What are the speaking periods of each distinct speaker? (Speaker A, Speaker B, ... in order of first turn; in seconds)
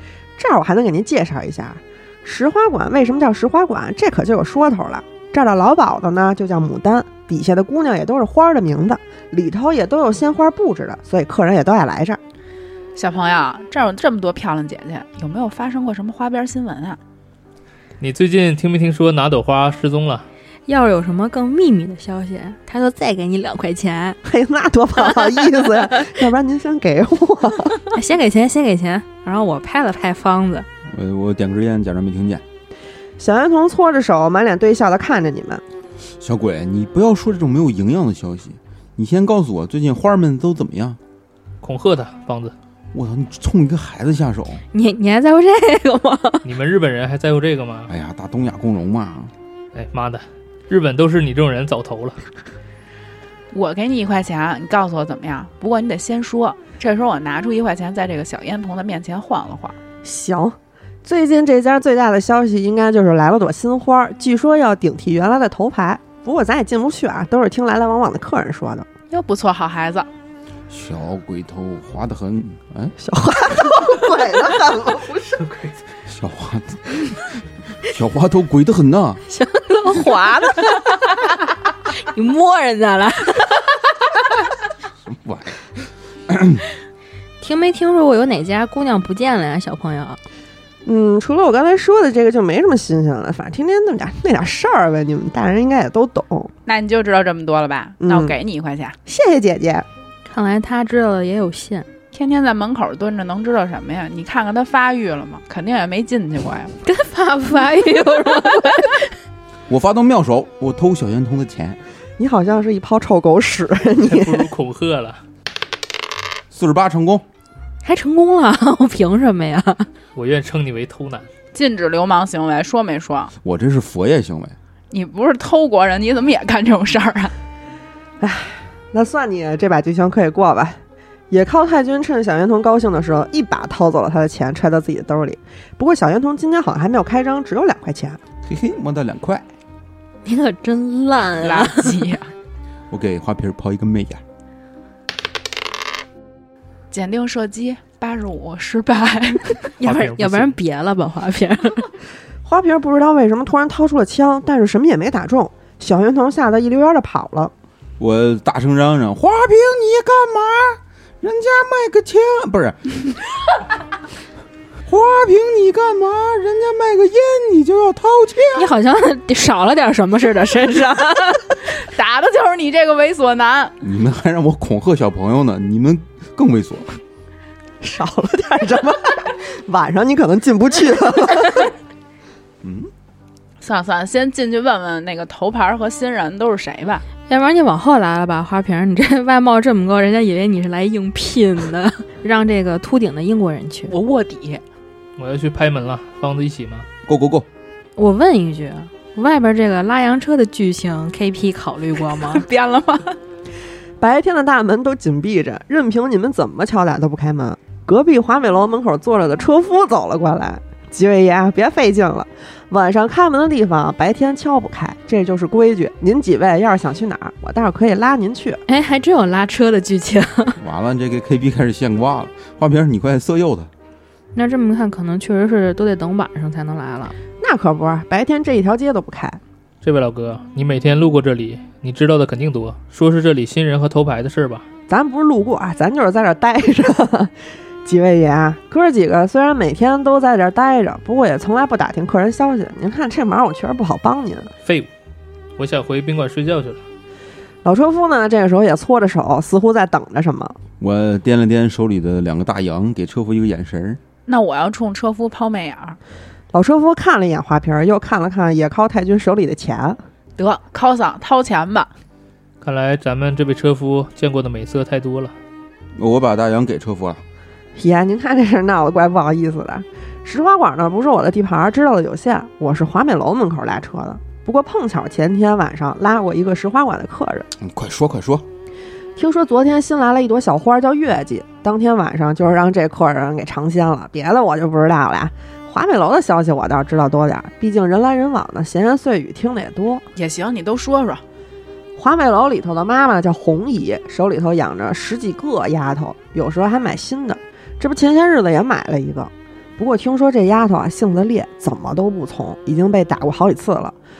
Speaker A: 0.4-12.2, 24.2-27.8, 33.2-35.6, 60.0-68.9, 73.0-75.2, 90.8-96.5, 98.0-98.3, 99.0-99.9, 112.2-114.5, 128.2-138.2, 152.4-157.5, 177.8-181.7, 204.0-218.6, 227.4-229.4, 234.9-237.3, 237.8-244.5, 247.6-250.6, 256.5-260.0, 267.8-277.5, 279.1-290.0, 291.9-303.9
Speaker B: 12.9-17.0, 53.5-59.8, 69.1-70.1, 96.7-99.0, 102.1-106.7, 121.5-123.3, 124.9-127.3, 141.4-142.3, 146.9-149.7, 171.8-173.8, 183.6-187.1, 193.9-194.6, 202.3-203.2, 254.2-256.0, 260.4-261.9, 290.1-291.2
Speaker C: 18.0-20.2, 41.6-42.5, 46.4-47.9, 49.7-52.2, 114.0-115.2, 120.1-121.3, 149.8-150.5, 195.2-196.8, 229.8-234.7, 245.6-246.8, 262.6-265.3
Speaker D: 20.7-24.2, 27.9-30.7, 44.7-46.5, 79.3-81.2, 81.8-83.8, 87.4-90.2, 100.3-101.9, 106.8-109.1, 117.8-119.9, 140.2-142.1, 149.8-151.9, 168.5-171.5, 187.3-193.9, 197.9-202.4, 218.7-220.6, 224.3-227.1
Speaker E: 30.9-32.4, 36.2-41.0, 42.9-44.6, 47.9-49.3, 70.7-72.9, 76.0-79.2, 85.0-85.7, 86.3-86.6, 109.7-111.8, 116.5-117.2, 123.4-124.5, 138.4-139.4, 142.9-144.2, 158.0-163.1, 164.8-168.7, 173.8-177.0, 182.6-182.9, 197.0-197.5, 220.6-223.7, 250.8-254.0, 265.9-267.2, 277.6-278.4